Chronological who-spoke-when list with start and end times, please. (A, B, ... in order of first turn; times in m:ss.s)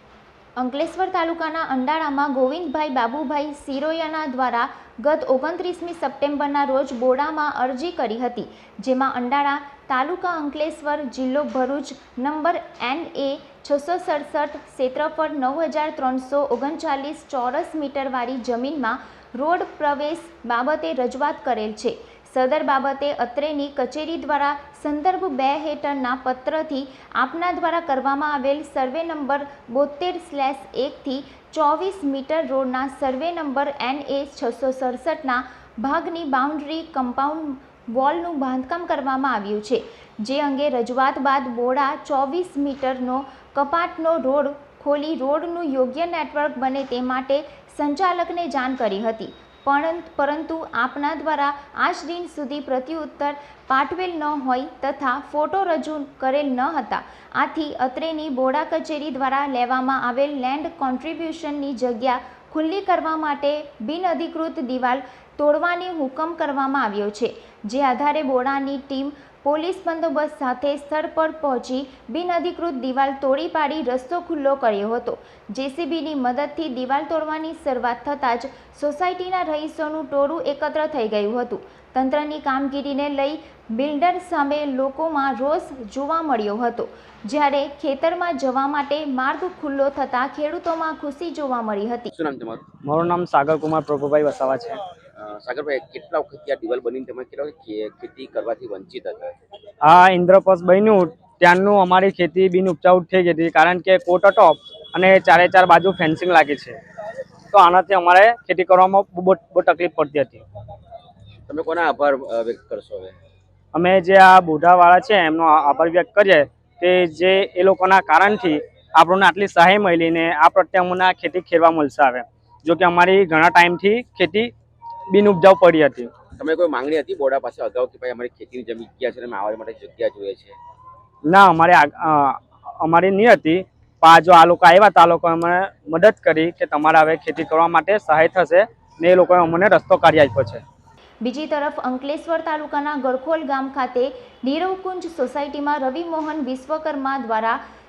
0:00.6-1:32.1 A
1:32.1-1:32.6 B
1:32.8-1:34.8 C
1:35.2-1:39.3 B
1:39.8-1:46.8 C
1:47.5-1:50.4 C
1:51.5-1:53.2 B
1:53.7-2:04.5 C
2:05.1-2:06.1 C
2:06.4-2:10.5 B
2:11.3-2:20.6 C
2:21.2-2:27.6 A